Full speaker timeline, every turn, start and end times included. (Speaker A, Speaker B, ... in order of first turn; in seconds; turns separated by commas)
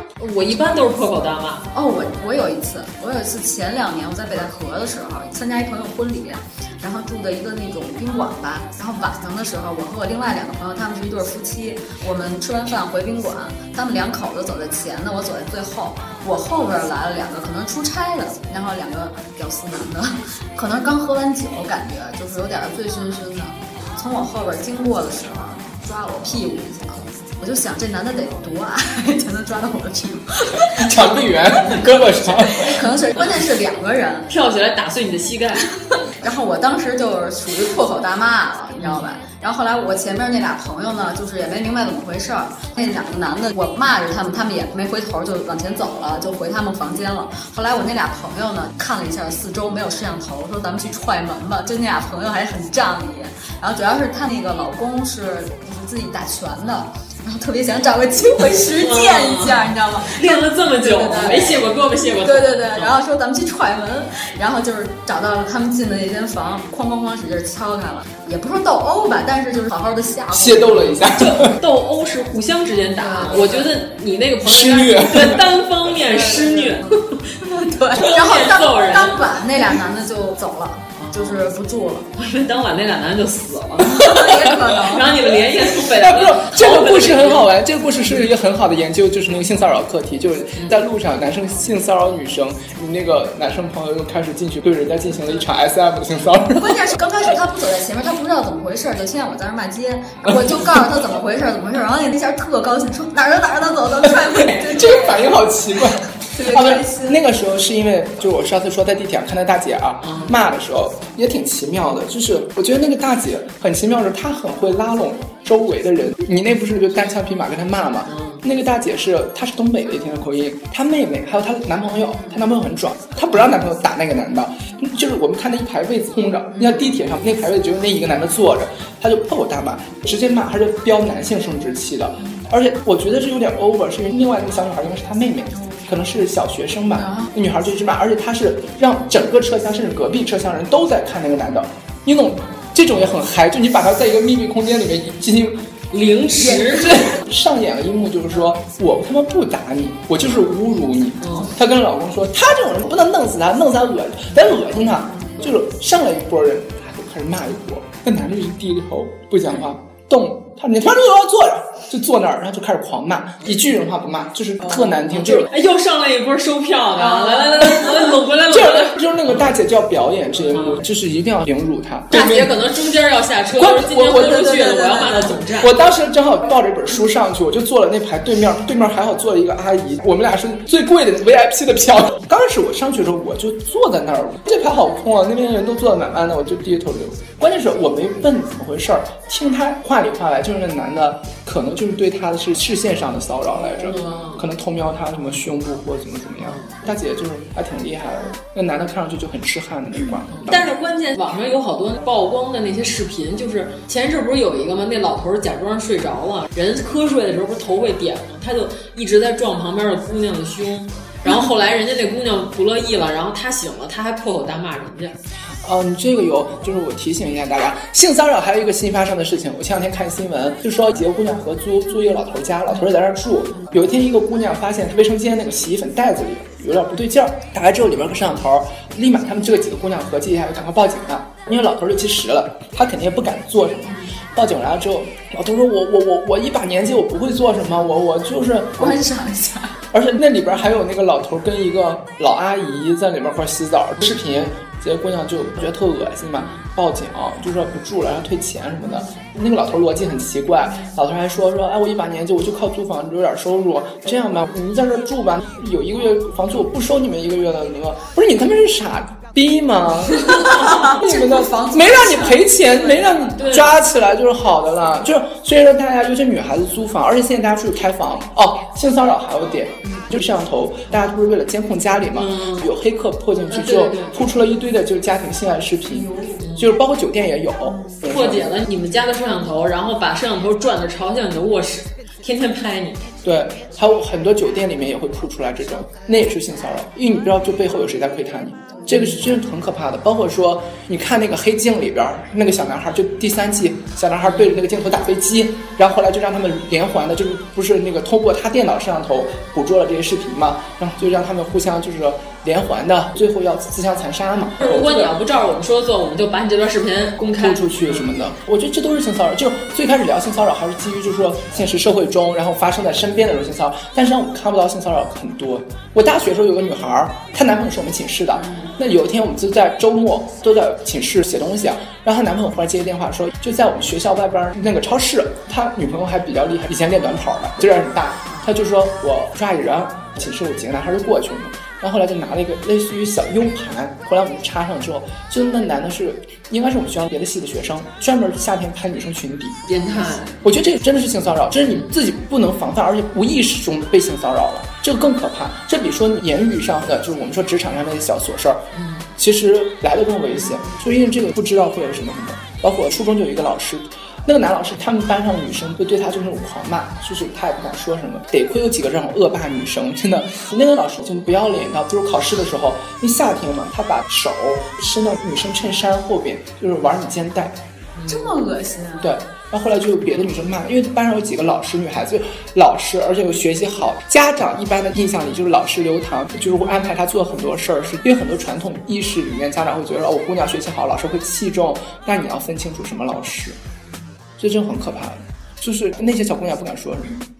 Speaker A: 0.2-1.7, Speaker B: 1.7-31.1, Speaker C: 30.8-32.8, Speaker B: 32.5-34.3, Speaker A: 34.3-35.7, Speaker B: 36.2-61.7, Speaker A: 58.8-62.9, Speaker B: 62.2-71.0, Speaker C: 70.3-71.5, Speaker A: 71.1-77.0, Speaker B: 73.0-73.7, Speaker C: 74.4-75.5, Speaker B: 76.1-82.1, Speaker A: 78.0-79.2, Speaker A: 81.0-81.4, Speaker A: 82.2-87.6, Speaker B: 83.8-85.3, Speaker C: 85.7-96.9, Speaker B: 96.6-105.4, Speaker C: 104.5-145.6, Speaker B: 106.3-107.2, Speaker A: 110.0-110.4, Speaker A: 118.1-118.4, Speaker B: 137.0-137.3, Speaker A: 145.9-147.0, Speaker C: 146.5-165.5, Speaker B: 146.6-147.0, Speaker A: 151.2-151.5, Speaker A: 165.1-169.4, Speaker B: 167.3-167.7, Speaker C: 168.5-172.6, Speaker A: 170.5-170.8, Speaker A: 172.1-175.7, Speaker C: 173.6-174.8, Speaker B: 174.6-175.2, Speaker C: 175.6-200.7, Speaker A: 193.7-194.4, Speaker A: 196.4-196.8, Speaker A: 200.3-215.2, Speaker C: 215.6-239.0, Speaker B: 238.8-239.8, Speaker C: 239.9-278.5, Speaker B: 260.3-262.6, Speaker A: 260.4-260.8, Speaker A: 263.1-263.7, Speaker A: 272.1-272.7, Speaker A: 273.5-274.2, Speaker B: 275.9-276.4, Speaker A: 276.4-276.7, Speaker B: 277.7-278.0, Speaker A: 278.1-283.0, Speaker C: 283.2-305.1, Speaker A: 294.3-294.5, Speaker A: 304.6-308.1, Speaker C: 307.3-339.6, Speaker B: 318.4-318.7, Speaker A: 339.7-340.4, Speaker C: 340.4-367.6, Speaker A: 348.7-349.1, Speaker A: 368.0-368.4, Speaker B: 368.1-369.1, Speaker C: 369.0-383.6, Speaker C: 384.4-387.2